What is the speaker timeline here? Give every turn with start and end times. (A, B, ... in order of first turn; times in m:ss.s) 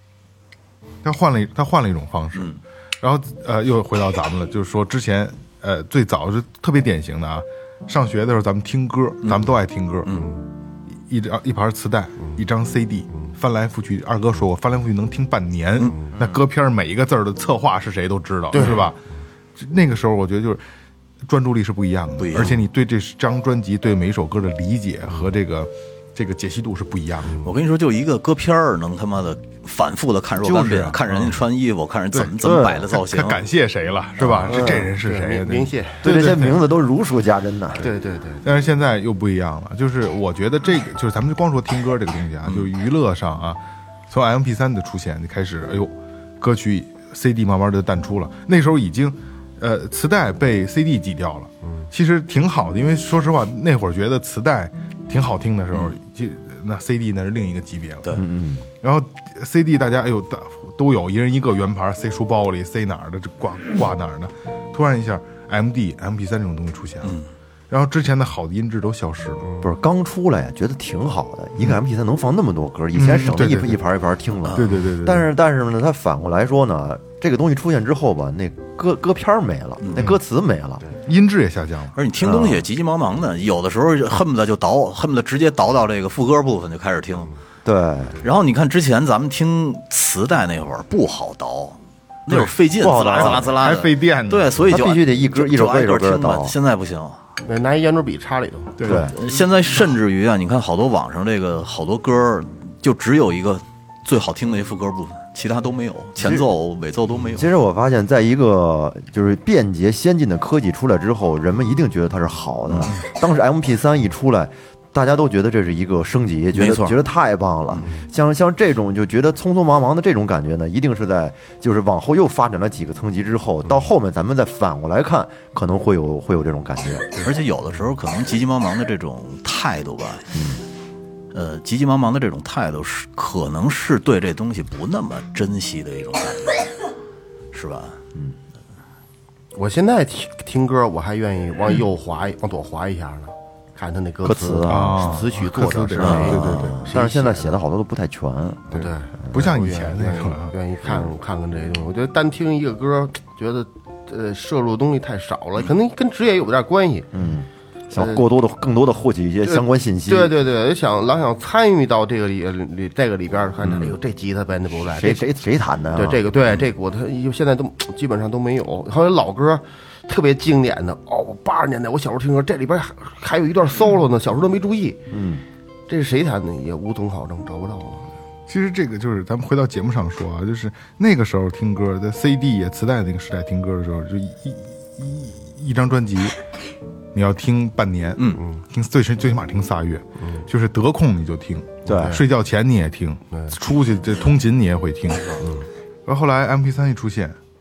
0:01.0-0:10.2 A
0:02.4-0:02.6 B
0:11.1-0:19.0 A
0:18.5-0:18.9 C
0:19.6-0:20.6 A
0:21.2-0:27.5 A
0:22.2-0:22.5 B
0:27.4-0:33.4 B
0:30.4-0:31.4 A
0:32.4-0:32.9 D
0:32.9-0:36.6 A
0:34.2-0:36.1 C
0:34.3-0:34.9 D
0:36.0-0:37.9 D
0:37.8-0:38.4 C
0:38.4-0:58.2 A
0:58.2-0:58.7 D
0:58.8-1:07.1 A
1:07.0-1:07.3 B
1:07.7-1:09.5 A
1:09.6-1:20.8 D
1:13.0-1:13.8 A
1:14.5-1:15.3 A
1:19.8-1:20.2 B
1:21.1-1:22.0 A
1:22.0-1:27.3 B
1:22.2-1:22.7 D
1:27.6-1:28.2 D
1:28.2-1:37.2 B
1:32.3-1:34.5 A
1:32.8-1:33.5 D
1:34.7-1:36.6 D
1:37.4-1:38.8 C
1:38.8-1:39.3 A
1:38.8-1:39.2 D
1:38.9-1:47.5 B
1:46.2-1:46.5 D
1:47.3-2:07.3 D
1:52.7-1:53.0 B
1:56.5-1:57.0 B
2:07.2-2:10.3 B
2:10.3-2:10.6 D
2:11.3-2:16.7 B
2:17.5-2:18.0 B
2:19.5-2:27.6 C
2:24.2-2:25.2 D
2:24.7-2:26.8 A
2:26.0-2:29.3 D
2:26.0-2:26.7 B
2:28.7-2:37.1 C
2:29.3-2:30.5 A
2:37.1-2:40.4 D
2:38.0-2:38.2 C
2:39.4-2:45.3 C
2:43.6-2:44.0 D
2:44.9-2:46.2 D
2:45.9-2:55.0 C
2:55.1-2:55.4 D
2:55.9-2:58.1 C
2:58.5-3:06.4 A
3:07.1-3:15.4 A
3:08.2-3:08.4 B
3:10.2-3:10.4 C
3:11.8-3:12.2 D
3:11.9-3:12.2 C
3:15.4-3:15.7 C
3:16.1-3:17.4 A